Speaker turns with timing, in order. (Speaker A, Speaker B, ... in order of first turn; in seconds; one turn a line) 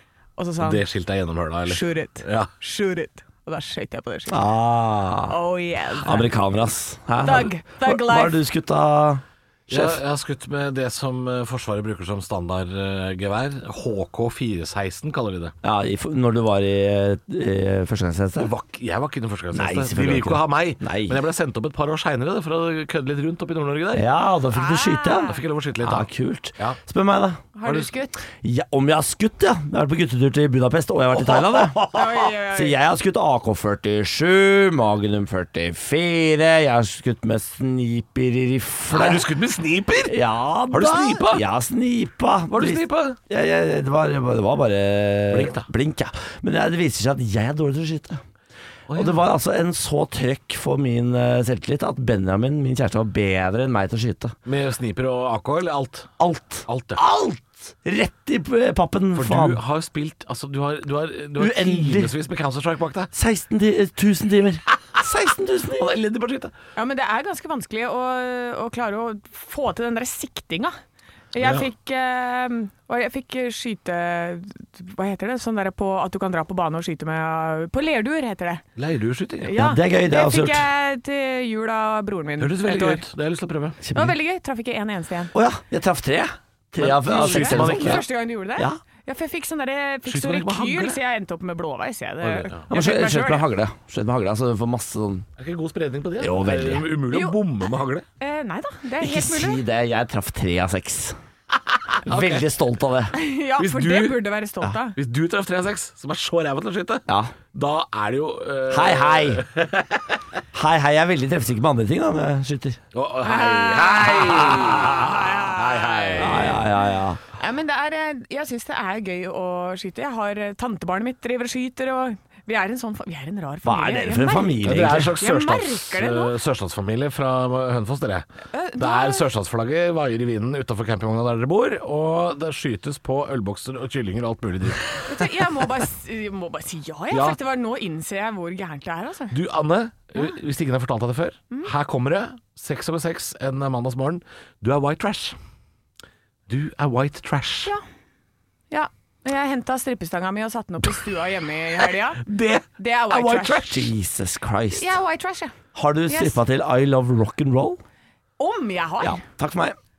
Speaker A: 0.4-0.8
Speaker B: 0.6-2.5
Speaker A: 1.7-4.4
Speaker C: 4.3-5.3
Speaker A: 5.3-6.3
Speaker C: 6.0-10.0
Speaker A: 7.2-8.4
Speaker B: 9.7-15.5
Speaker C: 15.6-18.5
Speaker B: 18.4-24.0
Speaker C: 19.5-21.2
Speaker C: 23.9-27.5
Speaker A: 24.5-25.4
Speaker B: 25.3-26.8
Speaker A: 27.5-28.2
Speaker B: 27.6-27.9
Speaker C: 28.4-31.9
Speaker B: 31.1-32.0
Speaker A: 31.9-32.7
Speaker C: 32.5-39.3
Speaker B: 38.9-41.4
Speaker C: 40.0-48.2
Speaker B: 42.5-43.2
Speaker B: 45.3-45.7
Speaker B: 48.9-49.2
Speaker C: 48.9-54.3
Speaker B: 54.5-57.0
Speaker C: 56.2-59.6
Speaker B: 59.1-63.1
Speaker C: 61.4-62.1
Speaker C: 63.1-65.9
Speaker B: 65.7-66.5
Speaker A: 66.8-70.8
Speaker A: 71.3-78.6
Speaker B: 71.4-71.7
Speaker B: 78.8-79.5
Speaker A: 79.4-83.0
Speaker C: 79.5-80.7
Speaker B: 82.4-83.8
Speaker C: 83.8-84.1
Speaker A: 83.9-85.3
Speaker C: 85.3-88.0
Speaker B: 86.8-88.0
Speaker A: 87.1-93.5
Speaker B: 90.0-91.0
Speaker B: 92.2-92.6
Speaker C: 92.7-95.3
Speaker B: 95.4-98.0
Speaker C: 96.2-96.9
Speaker A: 97.1-97.4
Speaker A: 98.2-99.6
Speaker C: 99.0-101.2
Speaker B: 101.9-102.5
Speaker C: 102.0-103.1
Speaker A: 103.1-105.0
Speaker B: 103.6-104.2
Speaker B: 104.9-110.2
Speaker C: 107.1-107.3
Speaker C: 108.7-109.4
Speaker C: 110.5-112.8
Speaker B: 112.9-116.6
Speaker A: 113.2-116.6
Speaker C: 114.4-114.9
Speaker C: 116.2-117.2
Speaker A: 117.4-126.3
Speaker C: 123.6-125.1
Speaker B: 124.6-128.2
Speaker A: 128.5-129.2
Speaker B: 128.8-135.3
Speaker A: 135.0-139.3
Speaker B: 137.1-137.4
Speaker B: 139.3-145.3
Speaker B: 146.5-147.7
Speaker A: 148.7-152.2
Speaker B: 152.2-153.9
Speaker A: 152.8-153.8
Speaker C: 153.6-155.0
Speaker A: 154.7-155.6
Speaker C: 155.7-157.8
Speaker A: 156.1-156.4
Speaker A: 158.4-159.2
Speaker C: 159.0-159.8